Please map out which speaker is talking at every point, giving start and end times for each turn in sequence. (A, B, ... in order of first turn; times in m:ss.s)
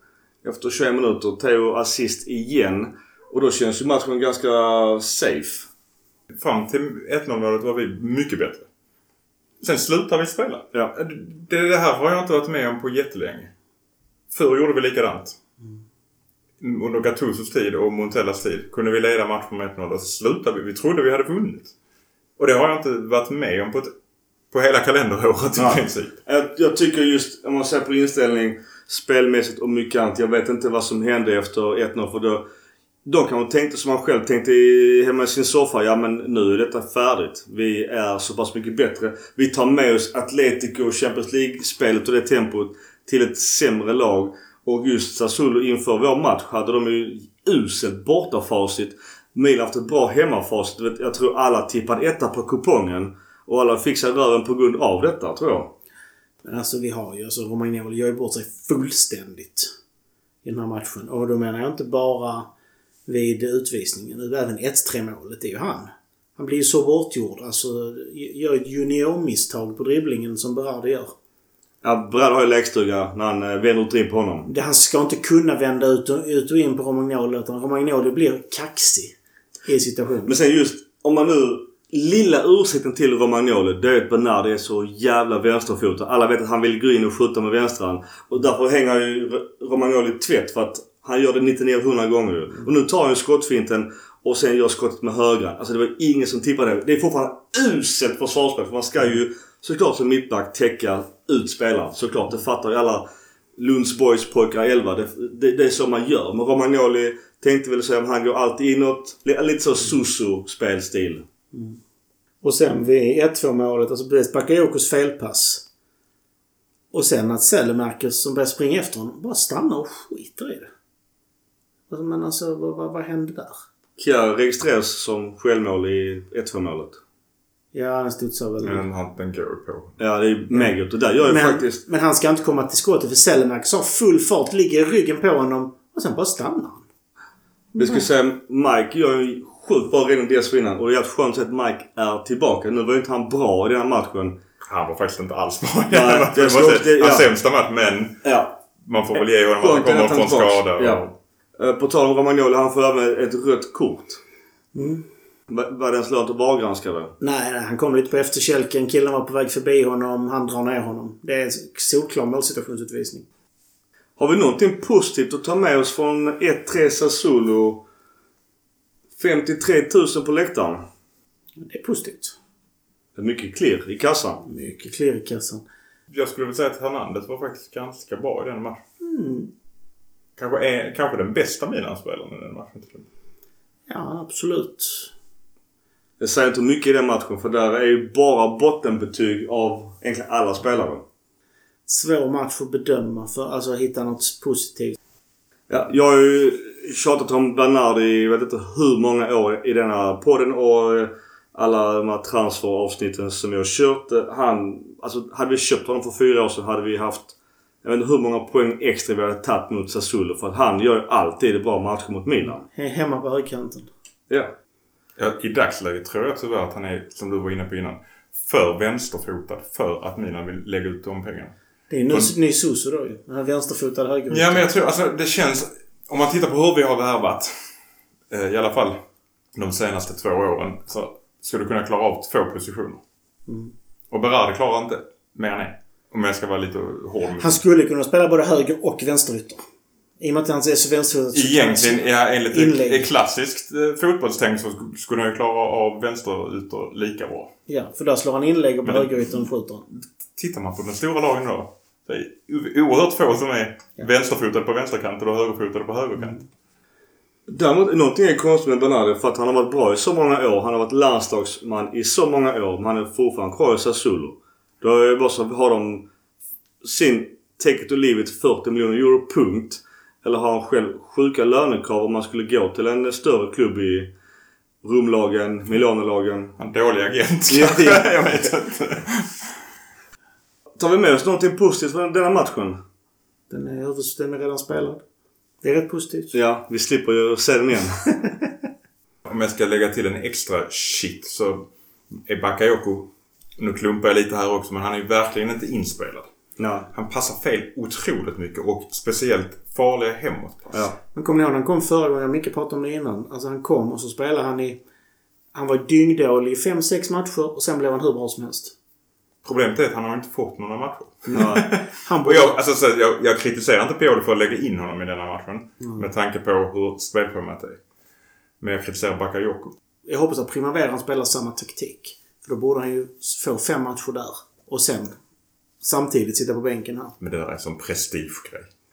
0:00.4-0:05.7 A
0:06.3-0:08.7 B
0:09.6-0:13.5 B
0:14.3-0:15.4 B
0:16.6-0:21.7 B
0:22.4-0:23.9 B
0:24.5-0:26.2 B
0:25.6-0:32.4 A
0:33.0-0:55.7 A
0:56.4-0:59.7 C
1:00.4-1:02.5 C
1:03.1-1:11.1 C
1:11.8-1:14.5 A
1:14.5-1:19.1 C
1:19.6-1:20.3 C
1:20.2-1:43.0 A
1:43.6-1:51.2 A
1:51.5-1:51.8 C
1:52.4-1:55.6 C
1:56.9-2:00.7 C
2:01.9-2:03.6 C
2:04.0-2:07.0 A
2:07.7-2:08.8 C
2:08.6-2:09.9 B
2:10.0-2:11.8 A
2:11.2-2:16.8 C
2:17.8-2:18.0 C
2:17.8-2:24.4 A
2:24.6-2:28.2 B
2:25.9-2:27.3 A
2:28.2-2:28.6 A
2:28.8-2:31.1 B
2:29.2-2:31.0 A
2:31.6-2:34.2 A
2:34.7-2:35.0 C
2:35.5-2:37.1 A
2:37.2-2:43.2 C
2:44.2-2:47.8 A
2:49.2-2:50.8 A
2:51.6-2:52.4 C
2:53.2-2:54.4 A
2:54.4-2:55.6 C
2:56.1-2:58.8 B
2:59.0-2:59.5 C
3:00.4-3:03.1 B
3:03.9-3:05.1 C
3:06.2-3:11.0 A
3:11.9-3:15.0 C
3:15.7-3:32.7 A
3:32.7-3:33.9 C
3:35.2-3:41.5 B
3:41.9-3:44.6 C
3:44.3-3:47.7 B
3:48.3-3:49.0 B
3:49.5-3:53.0 B
3:53.5-3:53.7 C
3:54.1-3:57.6 B
3:57.4-3:59.6 C
4:00.2-4:03.1 C
4:01.3-4:07.5 B
4:07.7-4:09.8 C
4:08.8-4:09.2 B
4:10.3-4:16.4 B
4:17.5-4:26.1 A
4:26.8-4:34.1 A
4:34.8-4:36.6 A
4:36.6-4:39.6 B
4:37.5-4:38.0 A
4:40.8-4:42.8 A
4:43.5-4:45.0 C
4:45.6-4:46.3 C
4:46.3-4:48.1 A
4:49.2-4:56.3 B
4:56.6-4:56.9 A
4:56.9-5:00.9 B
5:01.1-5:04.8 C
5:05.5-5:08.7 C
5:09.4-5:17.8 B
5:11.3-5:12.5 C
5:11.3-5:11.7 A
5:15.8-5:16.0 C
5:18.6-5:19.7 B
5:20.0-5:25.2 C
5:25.8-5:27.1 C
5:27.2-5:28.7 B